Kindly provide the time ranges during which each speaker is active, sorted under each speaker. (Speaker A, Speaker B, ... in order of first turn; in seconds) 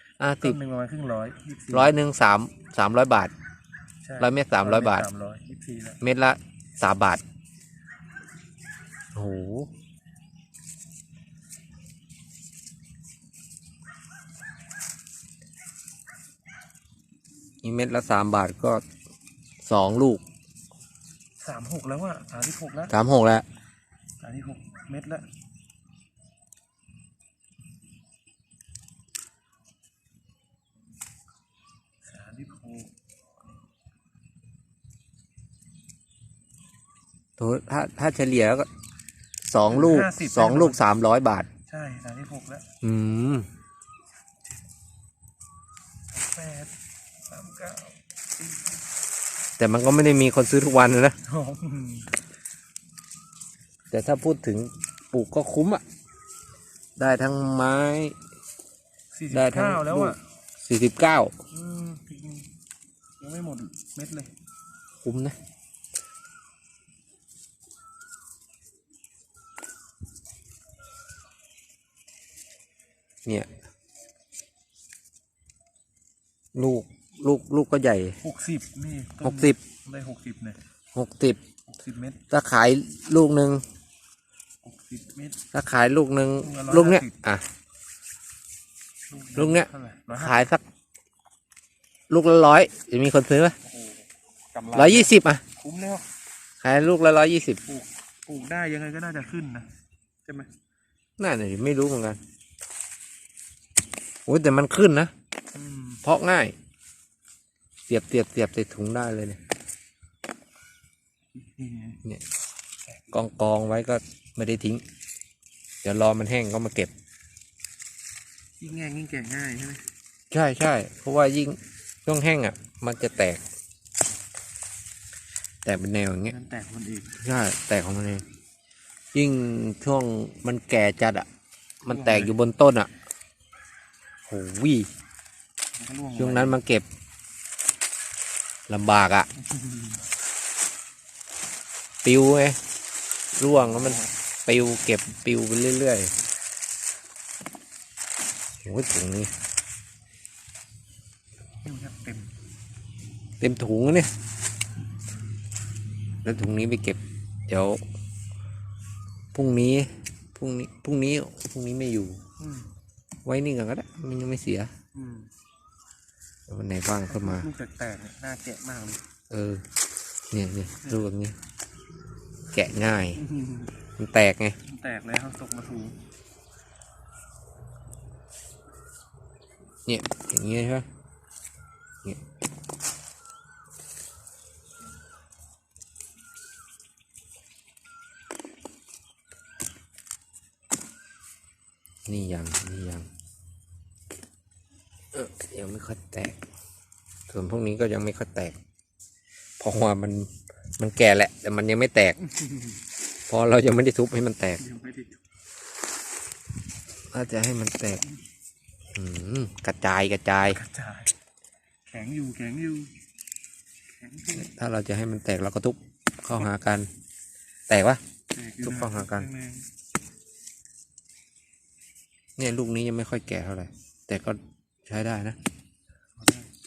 Speaker A: 0.2-0.6, 1.7-3.3, 4.2-5.1, 6.0-7.2, 9.2-9.7, 17.6-18.8, 19.6-20.2, 22.9-23.5, 37.4-38.7, 39.4-41.5, 42.8-43.5, 49.6-51.2, 53.9-55.8, 57.0-58.2, 59.3-61.3, 65.0-65.4, 76.5-78.2, 79.2-79.6, 81.0-81.4, 82.3-83.6, 85.5-87.5, 89.3-90.6, 92.1-93.6, 94.7-95.4, 96.6-97.6, 101.2-102.2, 104.3-105.1, 106.0-106.6, 107.9-109.4, 113.1-114.8, 115.8-116.9, 120.3-123.4, 125.7-126.3, 127.2-128.2, 129.1-131.3, 131.8-132.9, 134.3-134.9, 136.2-136.9, 138.7-139.3, 142.0-142.6, 143.4-146.1, 148.6-149.3, 153.4-154.1, 156.2-157.8, 159.3-162.2, 163.2-164.7, 166.5-167.5, 169.3-169.6, 170.3-171.4, 172.5-173.2, 174.0-174.6, 179.9-180.9, 192.1-193.1, 195.1-196.4, 197.3-198.6, 199.6-202.2, 203.3-204.6, 207.1-208.0, 208.9-210.6, 214.3-216.9, 217.7-218.0, 218.6-219.3, 222.4-225.4
Speaker B: 0.4-1.9, 4.0-6.0, 21.4-22.9, 24.2-25.2, 32.0-32.9, 39.7-40.8, 41.7-42.7, 46.1-46.7, 47.3-48.8, 51.3-52.2, 59.1-60.2, 61.5-62.5, 63.2-64.3, 78.2-80.6, 81.7-82.2, 84.6-85.4, 86.4-87.1, 89.1-90.5, 93.6-96.0, 97.7-99.7, 105.5-106.0, 111.3-112.0, 118.6-119.8, 126.3-127.2, 131.9-132.3, 135.8-136.6, 139.4-140.0, 143.6-144.1, 151.6-152.3, 162.4-162.7, 164.9-165.3, 167.1-169.0, 173.2-173.7, 174.6-176.0, 202.2-202.8, 204.6-205.2, 210.5-211.1, 211.9-212.9, 213.9-214.5, 218.3-219.7, 226.2-226.5